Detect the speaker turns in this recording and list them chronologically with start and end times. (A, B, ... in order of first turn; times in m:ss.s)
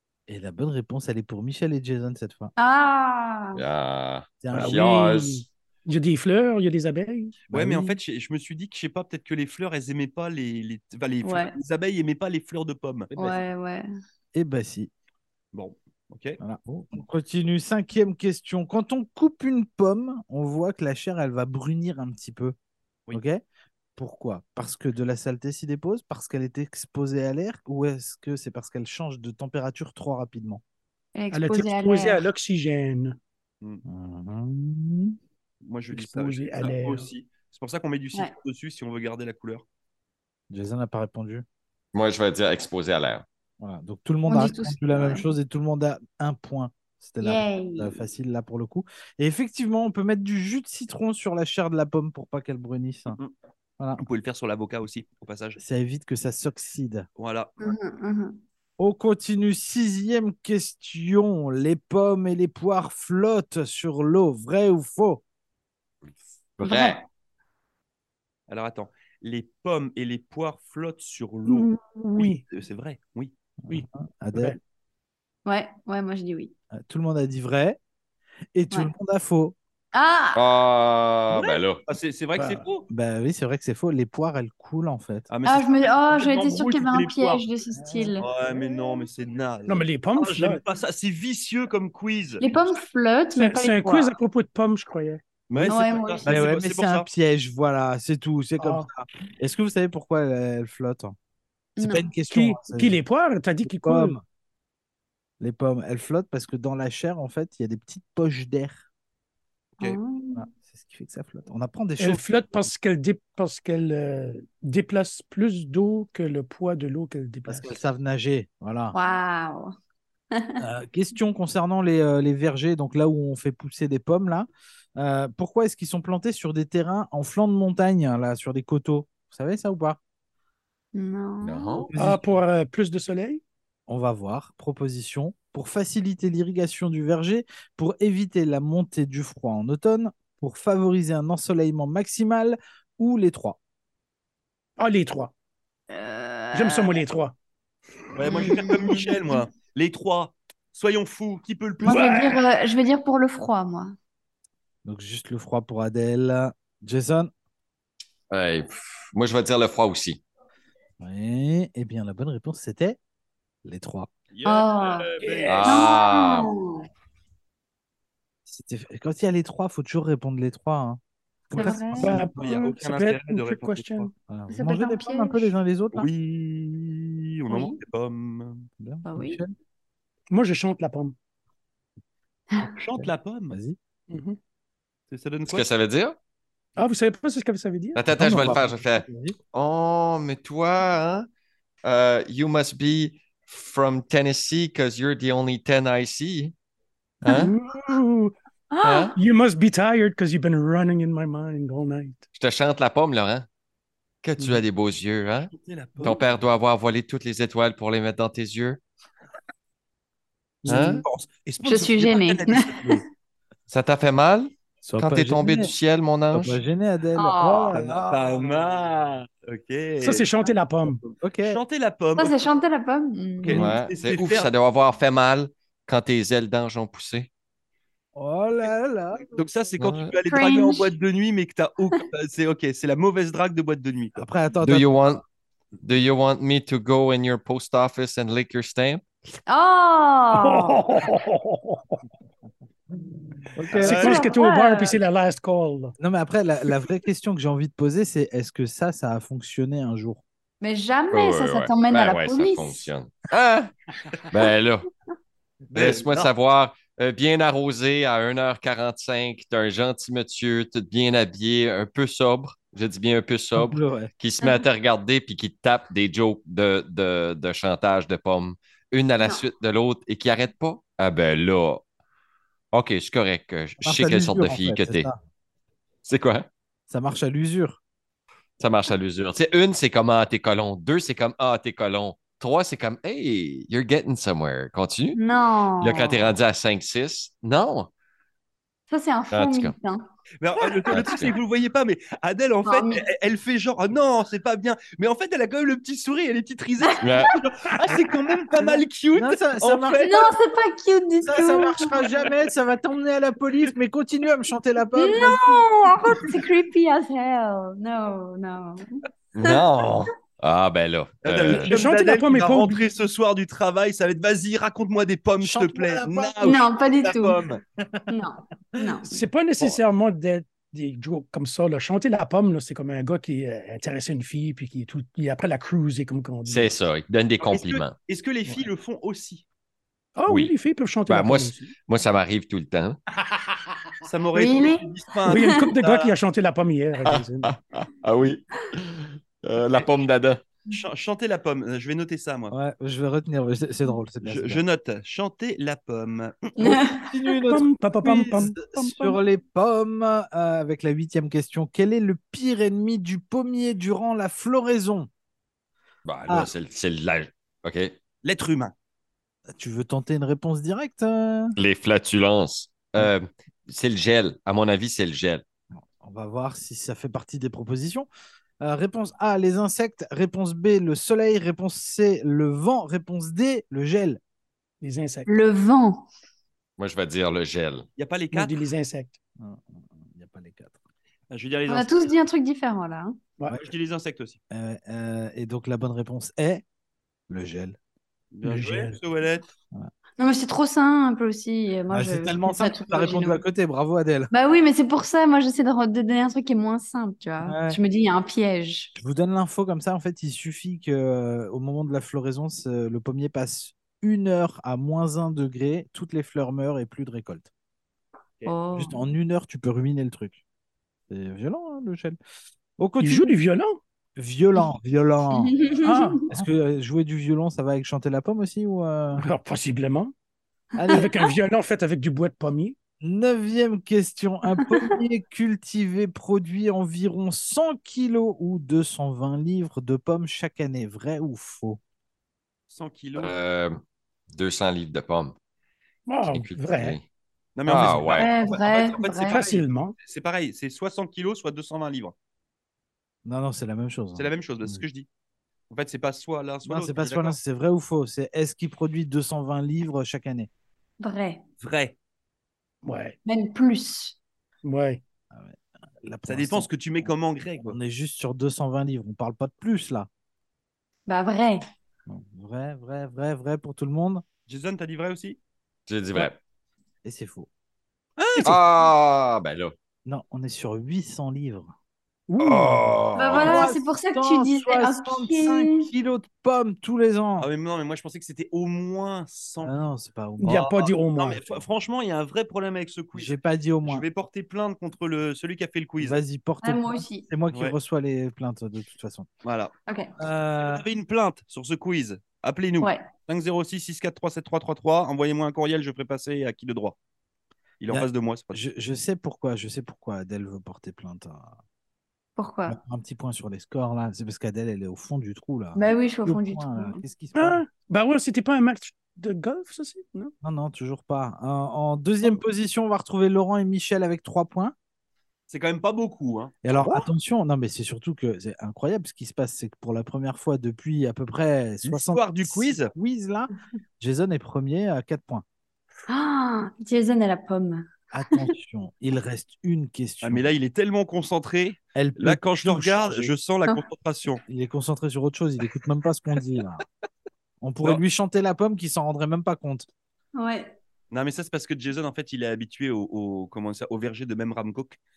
0:00.3-0:02.5 A
0:02.6-0:03.6 B
0:03.6-0:05.5 C
0:04.4-0:05.1 A
0:04.5-0:07.4 D
0:07.5-0:08.0 A
0:07.5-0:13.1 E
0:11.2-0:11.5 B
0:13.1-0:13.8 B
0:14.3-0:14.9 A
0:15.5-0:16.4 E
0:16.4-0:22.6 A
0:23.1-0:23.4 A
0:24.0-0:30.6 A
0:31.1-0:32.2 B
0:31.3-0:33.2 D
0:33.8-0:35.2 A
0:35.6-0:39.6 E
0:35.9-0:37.1 D
0:40.5-0:41.4 A
0:41.9-0:43.2 C
0:43.6-0:53.2 A
0:44.3-0:45.3 B
0:47.2-0:48.0 B
0:54.0-0:55.6 E
0:55.6-0:57.1 A
0:57.2-0:57.7 E
0:57.6-0:58.4 B
0:58.8-1:05.2 A
1:06.6-1:07.0 C
1:06.6-1:07.0 B
1:08.5-1:13.3 E
1:11.5-1:12.4 D
1:13.7-1:14.6 D
1:13.7-1:14.6 A
1:15.4-1:16.5 B
1:16.7-1:17.8 A
1:18.5-1:19.5 A
1:19.9-1:20.5 B
1:20.3-1:21.8 C
1:21.9-1:22.8 E
1:22.4-1:22.6 D
1:22.9-1:25.3 A
1:25.3-1:27.4 E
1:25.4-1:28.3 B
1:27.8-1:28.1 A
1:28.2-1:32.5 E
1:29.6-1:30.6 D
1:32.4-1:34.1 B
1:33.3-1:35.2 D
1:35.5-1:37.1 E
1:35.7-1:36.4 B
1:36.2-1:41.1 A
1:38.6-1:38.9 D
1:41.8-1:42.1 B
1:41.8-1:43.0 A
1:42.3-1:44.2 D
1:43.6-1:44.2 A
1:45.4-1:48.9 A
1:49.8-1:50.4 B
1:50.4-1:52.3 A
1:52.0-1:57.8 D
1:57.4-1:59.0 A
1:58.9-1:59.7 B
2:00.6-2:10.0 A
2:10.9-2:11.9 B
2:11.4-2:11.9 C
2:11.9-2:12.3 A
2:11.9-2:13.4 D
2:13.9-2:23.6 A
2:24.8-2:25.3 D
2:25.9-2:27.0 B
2:26.5-2:27.4 D
2:28.2-2:32.1 E
2:28.2-2:29.1 B
2:31.8-2:33.9 B
2:31.8-2:32.4 D
2:34.8-2:37.3 A
2:38.3-2:40.2 C
2:41.0-2:43.0 A
2:43.6-2:44.1 A
2:44.3-2:45.8 E
2:44.4-2:46.9 B
2:45.2-2:45.7 D
2:45.4-2:46.5 C
2:48.5-2:51.0 A
2:51.5-2:52.2 B
2:51.5-2:52.6 A
2:52.0-2:54.1 D
2:52.2-2:54.1 E
2:54.3-2:56.1 A
2:54.5-2:55.5 B
2:55.9-2:58.7 E
2:57.5-2:57.8 B
2:58.8-2:59.5 A
2:59.0-2:59.4 B
3:00.3-3:01.1 D
3:02.6-3:03.8 A
3:02.8-3:03.6 E
3:04.1-3:04.4 D
3:05.1-3:05.6 E
3:05.5-3:06.2 C
3:06.8-3:08.0 D
3:08.0-3:11.3 C
3:08.1-3:09.4 A
3:11.8-3:16.5 C
3:17.2-3:17.5 C
3:17.3-3:18.3 D
3:18.7-3:19.1 B
3:18.8-3:19.2 C
3:19.1-3:22.2 D
3:22.4-3:23.4 C
3:24.2-3:25.5 C
3:25.5-3:26.4 E
3:26.0-3:28.8 C
3:30.6-3:30.9 D
3:30.7-3:31.0 C
3:30.7-3:33.0 E
3:31.6-3:32.8 B
3:33.7-3:36.6 C
3:34.8-3:35.7 A
3:36.3-3:38.4 A
3:37.2-3:37.8 B
3:37.7-3:40.3 E
3:40.0-3:41.0 D
3:40.8-3:42.4 E
3:41.2-3:41.6 A
3:42.2-3:43.7 B
3:43.4-3:44.5 E
3:43.5-3:47.3 C
3:48.1-3:49.3 A
3:48.6-3:54.2 E
3:49.8-3:50.5 C
3:50.3-3:50.9 B
3:54.2-3:54.9 A
3:54.6-3:55.2 C
3:55.8-3:59.0 C
3:59.5-4:00.8 B
4:00.3-4:02.0 D
4:03.4-4:05.9 D
4:03.5-4:04.1 A
4:03.8-4:04.3 E
4:03.8-4:05.0 B
4:06.0-4:10.2 A
4:10.6-4:12.9 B
4:11.1-4:13.7 C
4:14.3-4:14.9 C
4:15.7-4:16.3 A
4:15.7-4:31.8 C
4:23.5-4:24.1 A
4:24.4-4:24.6 B
4:32.7-4:35.1 C
4:33.8-4:35.2 A
4:36.0-4:36.5 C
4:36.9-4:37.8 A
4:38.6-4:45.2 C
4:45.1-4:46.3 B
4:45.8-4:47.9 C
4:48.9-4:50.0 B
4:49.3-4:49.7 C
4:50.4-5:00.4 E
4:50.9-4:51.4 C
4:50.9-4:51.2 B
4:52.6-4:53.0 B
4:57.0-4:57.2 B
4:57.0-4:57.3 C
4:58.6-5:00.3 A
5:00.0-5:02.0 B
5:01.2-5:05.5 A
5:05.0-5:08.8 B
5:09.3-5:11.7 C
5:11.2-5:17.6 E
5:11.5-5:12.9 D
5:15.4-5:16.5 A
5:16.4-5:17.4 B
5:17.8-5:18.1 A
5:18.1-5:19.2 B
5:19.0-5:26.8 D
5:26.5-5:28.0 C
5:27.4-5:29.4 E
5:30.2-5:31.6 D
5:31.1-5:33.0 C
5:34.0-5:36.1 E
5:34.3-5:35.6 B
5:35.2-5:37.6 D
5:37.0-5:40.4 C
5:40.7-5:42.5 E
5:42.5-5:44.6 A
5:44.2-5:46.7 E
5:46.6-5:47.1 B
5:46.6-5:55.1 A
5:47.5-5:49.2 D
5:56.0-5:57.9 C
5:58.2-5:58.7 E
5:59.5-6:01.5 A
6:01.6-6:05.4 C
6:05.7-6:08.1 A
6:08.6-6:14.2 A
6:14.8-6:15.3 D
6:15.3-6:16.1 B
6:16.8-6:17.8 C
6:18.0-6:18.7 E
6:18.3-6:19.2 D
6:19.4-6:20.8 A
6:21.3-6:22.2 E
6:21.7-6:23.1 B
6:23.5-6:24.4 E
6:24.5-6:26.6 A
6:27.3-6:27.8 A
6:28.3-6:29.4 E
6:28.4-6:29.0 D
6:30.2-6:33.4 B
6:31.9-6:34.3 A
6:34.3-6:38.9 B
6:37.4-6:37.8 A
6:39.0-6:47.5 A
6:48.4-6:49.0 B
6:48.8-6:50.4 A
6:51.1-6:52.2 A
6:52.8-6:53.3 A
6:53.0-6:53.8 D
6:54.2-6:55.6 A
6:55.4-6:56.1 B
6:55.8-6:56.2 D
6:56.3-6:59.2 A
6:59.2-7:00.1 D
7:00.8-7:01.1 A
7:00.9-7:02.8 D
7:03.0-7:11.8 A
7:04.7-7:05.0 B
7:12.7-7:13.4 E
7:13.2-7:13.7 C
7:14.3-7:15.4 C
7:16.0-7:17.0 D
7:16.3-7:17.0 C
7:17.6-7:22.1 E
7:17.6-7:18.3 C
7:18.1-7:19.4 B
7:19.3-7:20.0 D
7:23.2-7:24.8 A
7:24.1-7:25.1 E
7:25.7-7:27.4 E
7:26.6-7:30.5 A
7:31.0-7:31.4 B
7:31.6-7:31.9 E
7:32.8-7:33.2 D
7:33.2-7:34.2 B
7:34.6-7:35.0 D
7:35.3-7:36.7 A
7:36.3-7:37.8 E
7:37.6-7:40.1 A
7:41.1-7:41.6 B
7:42.1-7:44.2 A
7:44.5-7:45.4 E
7:45.9-7:46.4 C
7:47.0-7:47.5 A
7:48.2-7:48.6 E
7:48.4-7:49.7 C
7:50.0-7:51.7 A
7:52.3-7:53.0 D
7:52.4-7:53.7 C
7:53.2-7:55.9 B
7:53.3-7:57.5 A
7:57.4-7:59.7 E
7:59.6-8:00.6 A
8:00.4-8:01.4 D
8:00.5-8:06.2 E
8:03.1-8:04.0 A
8:06.0-8:09.3 A
8:06.6-8:07.2 B
8:09.4-8:09.7 E
8:10.2-8:10.8 A
8:10.6-8:17.0 E
8:12.8-8:13.0 B
8:17.8-8:18.5 E
8:17.9-8:21.6 A
8:22.4-8:22.8 B
8:22.7-8:27.6 A
8:25.7-8:27.0 B
8:27.3-8:30.3 D
8:30.4-8:34.7 A
8:35.5-8:37.0 E
8:36.6-8:45.4 A
8:41.8-8:42.9 E
8:46.1-8:48.5 B
8:48.1-8:50.5 A
8:50.2-8:54.4 E
8:51.9-8:53.3 A
8:54.5-8:56.8 A
8:57.6-8:59.9 A
9:00.4-9:00.8 B
9:01.1-9:05.0 E